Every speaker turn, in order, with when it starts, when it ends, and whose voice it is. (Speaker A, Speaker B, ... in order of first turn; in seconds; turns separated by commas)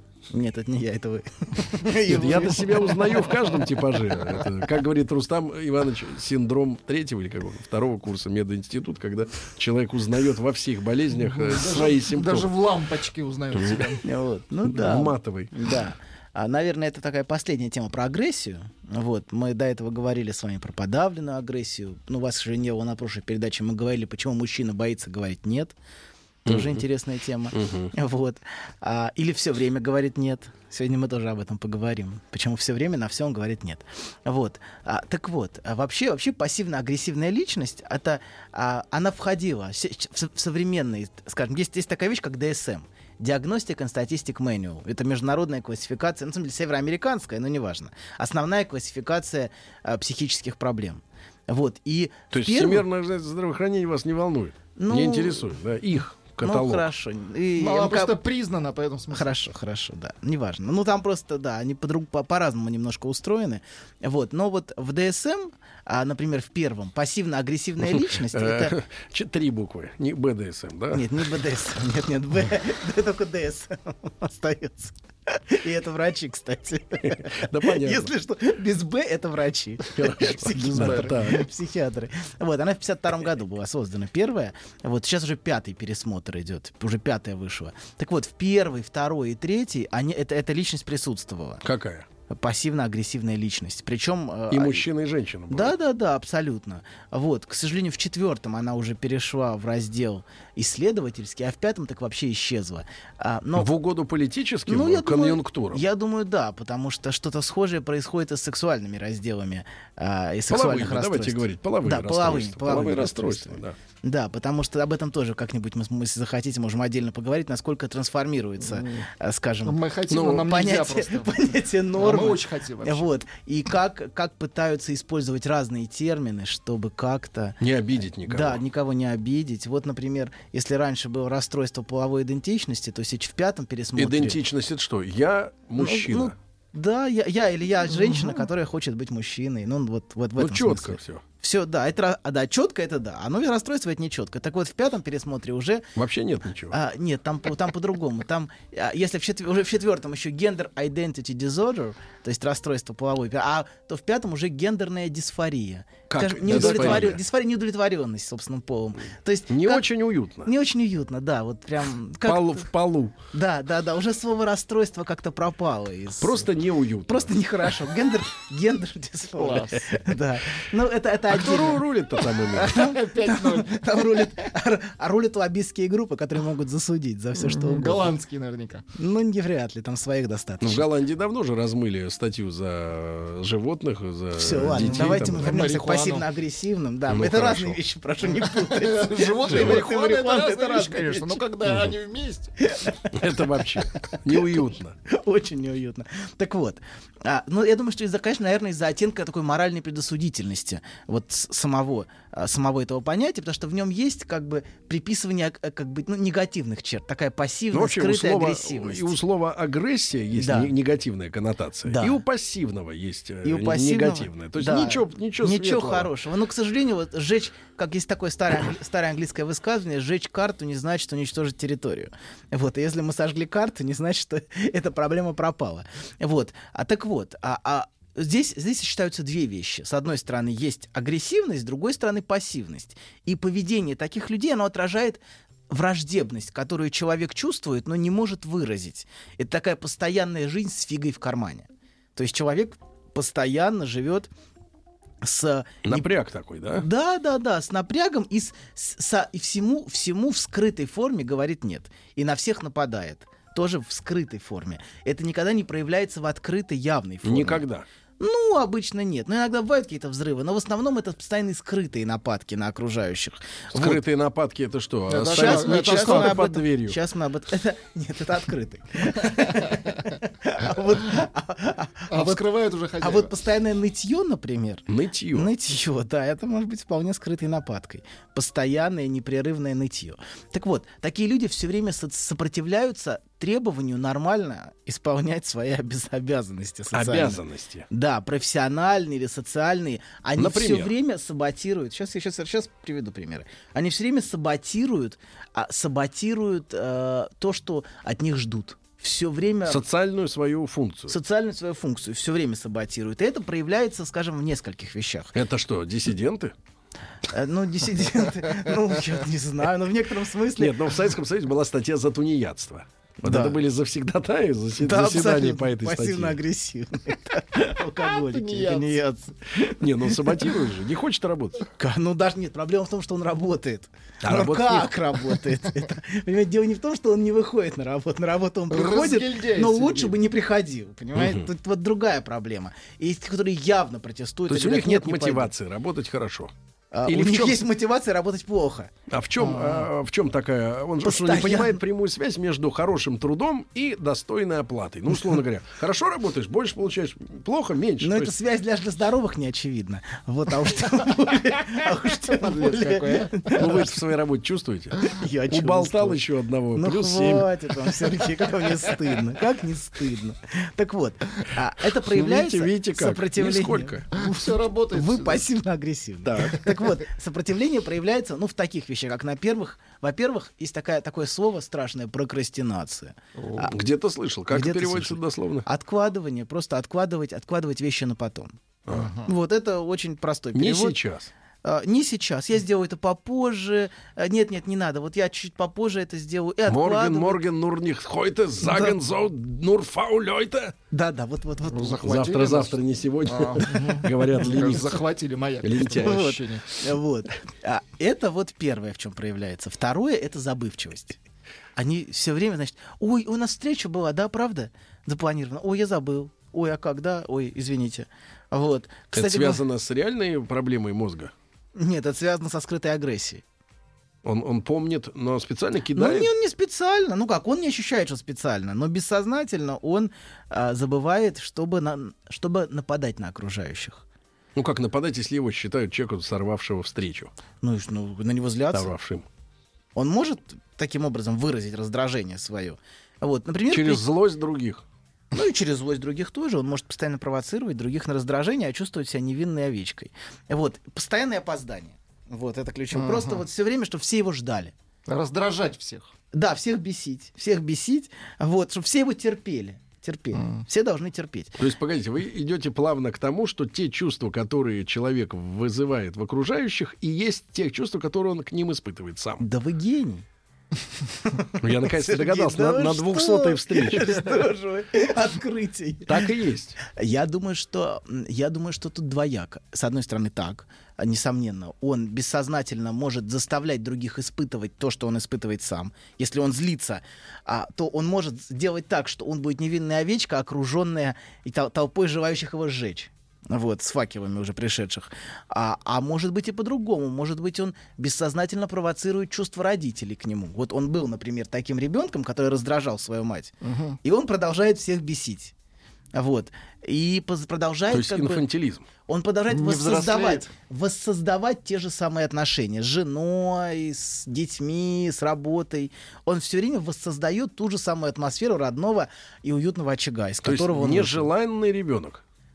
Speaker A: 0.3-3.2, Speaker B: 2.0-12.5, Speaker C: 11.3-14.0, Speaker B: 13.5-13.8, Speaker A: 14.0-25.7, Speaker B: 14.6-15.5, Speaker A: 26.4-52.8, Speaker B: 26.4-26.8, Speaker B: 27.5-27.9, Speaker B: 52.3-56.9, Speaker A: 54.8-55.5, Speaker A: 56.4-58.2, Speaker C: 57.6-59.3, Speaker A: 59.1-68.7, Speaker B: 67.9-71.2, Speaker A: 70.9-91.6, Speaker B: 77.0-78.1, Speaker B: 79.9-81.5, Speaker B: 91.6-92.1, Speaker A: 92.3-94.9, Speaker B: 94.5-95.7, Speaker A: 95.5-103.7, Speaker B: 103.5-105.8, Speaker A: 104.7-127.6, Speaker B: 110.5-113.8, Speaker C: 118.8-119.0, Speaker C: 119.7-121.3, Speaker B: 120.1-120.5, Speaker C: 122.0-123.1, Speaker B: 127.6-128.6, Speaker A: 128.2-134.4, Speaker B: 133.9-136.3, Speaker A: 135.8-145.9, Speaker B: 140.3-141.2, Speaker B: 145.9-146.8, Speaker A: 146.7-159.9, Speaker B: 156.1-157.2, Speaker B: 159.5-160.5, Speaker A: 160.4-162.7, Speaker B: 162.2-163.2, Speaker A: 163.3-166.5, Speaker B: 166.2-167.3, Speaker A: 167.1-178.1, Speaker C: 169.4-169.7, Speaker B: 171.3-172.8, Speaker C: 172.9-173.9, Speaker C: 177.3-178.8, Speaker A: 178.9-180.9, Speaker B: 180.6-185.7, Speaker A: 184.3-191.4, Speaker C: 184.8-186.2, Speaker B: 187.1-187.8, Speaker C: 188.4-192.5, Speaker B: 189.5-189.8, Speaker A: 192.6-209.2, Speaker B: 193.1-194.9, Speaker B: 207.7-216.1, Speaker A: 210.3-210.7, Speaker A: 211.8-212.2, Speaker A: 213.4-244.3, Speaker A: 245.2-246.1, Speaker B: 245.8-246.8, Speaker A: 246.7-257.6, Speaker B: 257.2-257.9, Speaker A: 258.2-264.0, Speaker B: 263.7-267.0, Speaker C: 265.1-266.4, Speaker A: 265.3-272.4, Speaker C: 272.1-273.3, Speaker A: 273.0-299.8, Speaker B: 274.9-275.5, Speaker B: 286.9-287.9, Speaker B: 290.4-290.9, Speaker B: 299.7-301.1, Speaker A: 301.1-305.3, Speaker B: 305.3-306.5, Speaker A: 307.3-310.8, Speaker B: 310.6-316.4, Speaker A: 313.2-313.6, Speaker A: 314.8-320.4, Speaker C: 318.4-318.9, Speaker B: 319.8-321.6, Speaker A: 321.8-335.5, Speaker B: 324.2-324.9, Speaker C: 328.7-330.2, Speaker B: 331.1-331.5, Speaker B: 334.5-336.5, Speaker A: 336.9-338.9, Speaker B: 337.1-337.7, Speaker B: 339.1-348.3, Speaker A: 339.6-339.8, Speaker A: 341.0-341.8, Speaker A: 348.0-354.0, Speaker C: 352.4-353.3, Speaker B: 353.6-355.0, Speaker A: 355.0-356.2, Speaker B: 355.5-357.5, Speaker A: 356.7-373.8, Speaker B: 362.0-364.1, Speaker C: 364.1-365.4, Speaker B: 366.2-366.7, Speaker C: 373.4-373.7, Speaker B: 373.7-375.6, Speaker A: 374.5-378.5, Speaker B: 378.9-379.1, Speaker C: 378.9-379.3, Speaker A: 379.2-381.0, Speaker B: 380.5-381.3, Speaker A: 381.6-387.4, Speaker B: 386.7-390.7, Speaker A: 388.6-389.0, Speaker A: 390.9-392.6, Speaker C: 391.7-392.7, Speaker B: 392.0-395.0, Speaker C: 393.3-396.7, Speaker B: 395.6-396.4, Speaker A: 396.0-401.2, Speaker A: 401.8-409.6, Speaker B: 409.1-411.3, Speaker A: 411.7-413.4, Speaker B: 414.2-416.3, Speaker A: 415.9-424.0, Speaker B: 424.5-427.3, Speaker A: 427.6-428.9, Speaker B: 428.7-429.2, Speaker A: 429.9-434.1, Speaker B: 433.7-434.8, Speaker A: 435.3-444.7, Speaker C: 442.9-443.4, Speaker C: 445.1-446.1, Speaker A: 446.3-451.6, Speaker C: 450.3-450.6, Speaker B: 451.6-459.4, Speaker A: 459.4-460.2, Speaker A: 461.2-466.3, Speaker B: 461.6-464.2, Speaker B: 466.1-466.8, Speaker A: 466.8-495.5, Speaker C: 493.6-494.0, Speaker A: 496.1-498.4, Speaker B: 497.9-498.9, Speaker A: 499.1-511.3, Speaker C: 499.5-500.5, Speaker B: 510.4-512.2